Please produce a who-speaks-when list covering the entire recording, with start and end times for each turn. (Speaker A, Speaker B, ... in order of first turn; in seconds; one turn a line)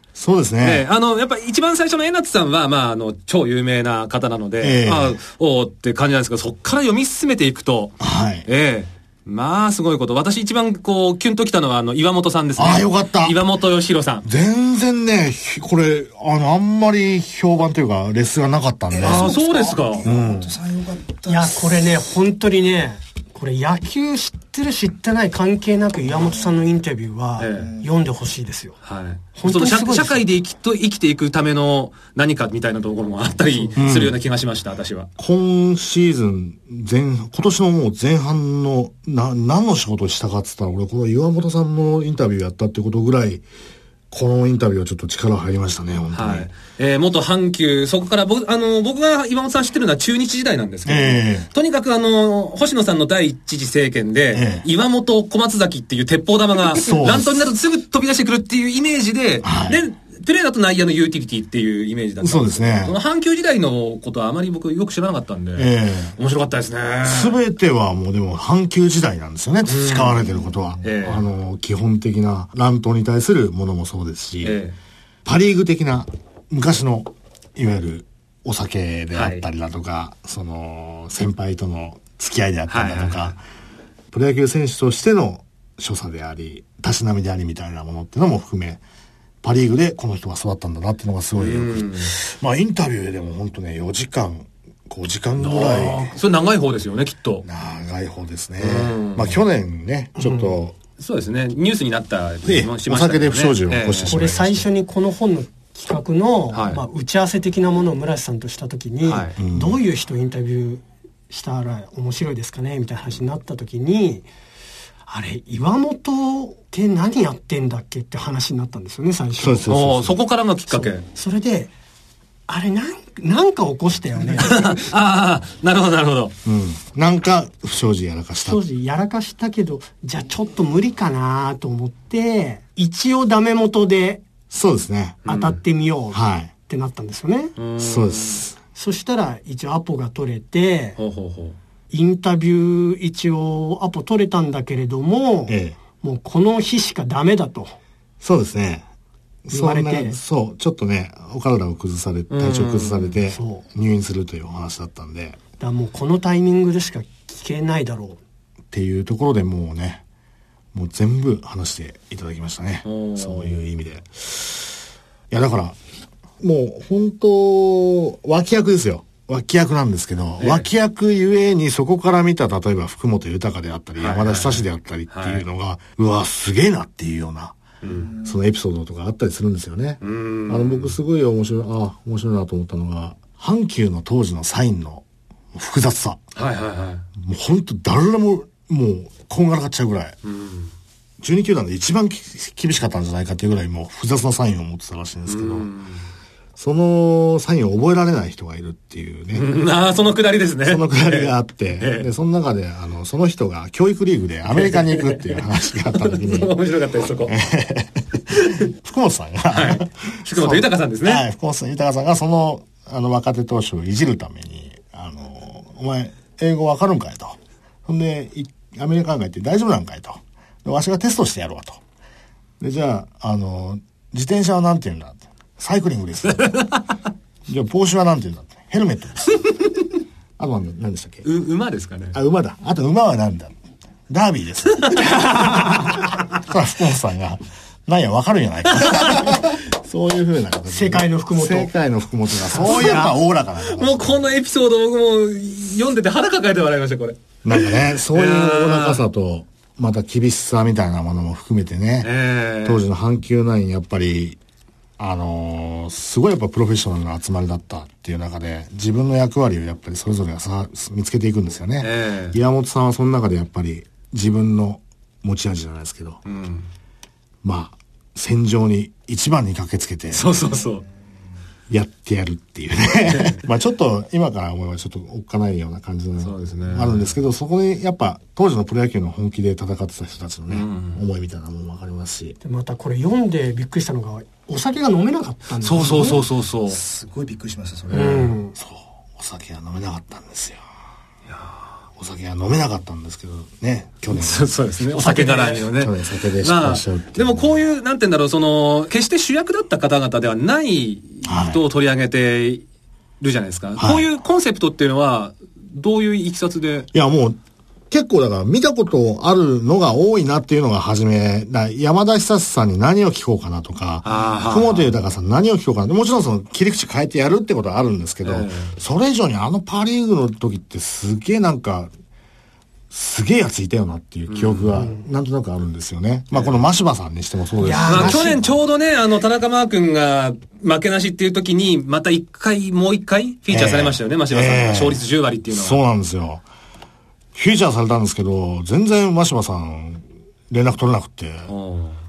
Speaker A: 0.1-0.9
Speaker B: 0.6-14.2
Speaker A: 4.6-5.2
Speaker A: 8.0-8.5
Speaker A: 12.6-13.4
Speaker A: 14.2-19.3
Speaker C: 18.9-22.0
Speaker B: 19.0-20.1
Speaker A: 20.0-20.5
Speaker D: 21.3-28.8
Speaker C: 26.2-26.6
Speaker B: 27.4-27.7
Speaker C: 27.5-27.9
Speaker B: 28.8-35.1
Speaker D: 29.4-30.2
Speaker D: 33.5-33.8
Speaker A: 33.8-34.1
Speaker A: 35.2-43.4
Speaker A: 44.1-46.5
Speaker B: 46.1-67.4
Speaker A: 50.9-51.5
Speaker A: 54.3-54.6
Speaker A: 56.7-57.5
Speaker A: 59.4-59.8
Speaker A: 62.2-63.0
Speaker A: 65.5-66.2
Speaker A: 67.0-74.6
Speaker B: 69.7-70.2
Speaker C: 70.2-70.8
Speaker B: 70.8-71.2
Speaker B: 74.4-74.7
Speaker A: 75.2-83.4
Speaker B: 79.1-79.4
Speaker B: 82.7-83.3
Speaker A: 84.1-88.8
Speaker A: 89.4-96.1
Speaker B: 91.4-92.1
Speaker B: 95.4-97.4
Speaker A: 97.4-100.8
Speaker B: 98.6-99.4
Speaker D: 100.2-100.5
Speaker B: 101.0-104.1
Speaker A: 102.4-104.7
Speaker D: 104.1-114.3
Speaker B: 106.5-106.8
Speaker B: 109.0-109.3
Speaker A: 109.4-109.8
Speaker D: 115.1-119.7
Speaker A: 119.4-120.2
Speaker B: 119.7-121.0
Speaker D: 120.7-121.7
Speaker D: 122.5-124.8
Speaker B: 124.4-126.3
Speaker A: 126.4-128.6
Speaker D: 128.4-134.2
Speaker A: 134.5-135.2
Speaker B: 135.2-135.6
Speaker D: 135.3-137.5
Speaker A: 136.1-136.5
Speaker B: 137.6-138.4
Speaker A: 137.8-138.6
Speaker D: 138.7-141.0
Speaker B: 141.0-141.6
Speaker D: 141.9-147.8
Speaker A: 145.5-145.8
Speaker A: 148.2-148.8
Speaker A: 149.4-155.4
Speaker D: 149.5-150.2
Speaker B: 152.3-153.2
Speaker D: 153.3-153.6
Speaker D: 155.6-158.2
Speaker A: 158.7-160.0
Speaker A: 160.7-164.7
Speaker B: 162.8-163.6
Speaker A: 165.3-165.8
Speaker A: 166.4-177.6
Speaker B: 170.4-170.7
Speaker B: 174.0-175.4
Speaker B: 177.8-178.1
Speaker C: 177.9-178.4
Speaker A: 178.2-186.2
Speaker B: 180.0-180.9
Speaker B: 186.3-187.0
Speaker A: 187.2-190.1
Speaker B: 190.2-190.7
Speaker A: 191.2-195.7
Speaker B: 195.3-196.0
Speaker A: 196.6-199.5
Speaker B: 199.3-202.1
Speaker A: 200.6-206.6
Speaker B: 204.5-207.3
Speaker A: 207.3-221.8
Speaker B: 208.3-208.6
Speaker B: 209.5-211.2
Speaker A: 222.6-226.7
Speaker A: 227.5-229.6
Speaker A: 230.4-231.2
Speaker B: 231.2-232.2
Speaker A: 232.1-233.5
Speaker A: 234.1-244.2
Speaker D: 235.1-235.8
Speaker B: 238.9-239.2
Speaker D: 240.7-241.7
Speaker D: 242.4-243.1
Speaker B: 242.6-249.0
Speaker A: 247.4-252.1
Speaker B: 252.0-252.8
Speaker A: 252.6-254.4
Speaker A: 255.0-266.2
Speaker B: 261.8-262.4
Speaker B: 266.2-266.7
Speaker A: 267.4-270.3
Speaker B: 270.1-270.8
Speaker A: 271.7-282.4
Speaker B: 276.2-277.1
Speaker B: 280.5-281.0
Speaker D: 282.4-286.2
Speaker B: 285.6-286.8
Speaker C: 286.6-288.3
Speaker B: 287.9-288.3
Speaker D: 287.9-288.5
Speaker A: 288.6-290.6
Speaker B: 291.3-291.6
Speaker A: 292.0-297.5
Speaker B: 294.1-302.6
Speaker D: 294.9-295.6
Speaker A: 301.2-301.6
Speaker B: 303.2-306.9
Speaker A: 303.8-304.1
Speaker A: 306.9-307.4
Speaker A: 307.9-321.9
Speaker B: 314.0-314.9
Speaker B: 318.2-318.7
Speaker A: 322.9-328.4
Speaker B: 324.3-324.9
Speaker D: 324.8-325.0
Speaker B: 326.3-326.6
Speaker D: 327.6-328.4
Speaker B: 327.9-335.8
Speaker A: 333.5-336.4
Speaker A: 337.3-341.5
Speaker B: 341.5-342.0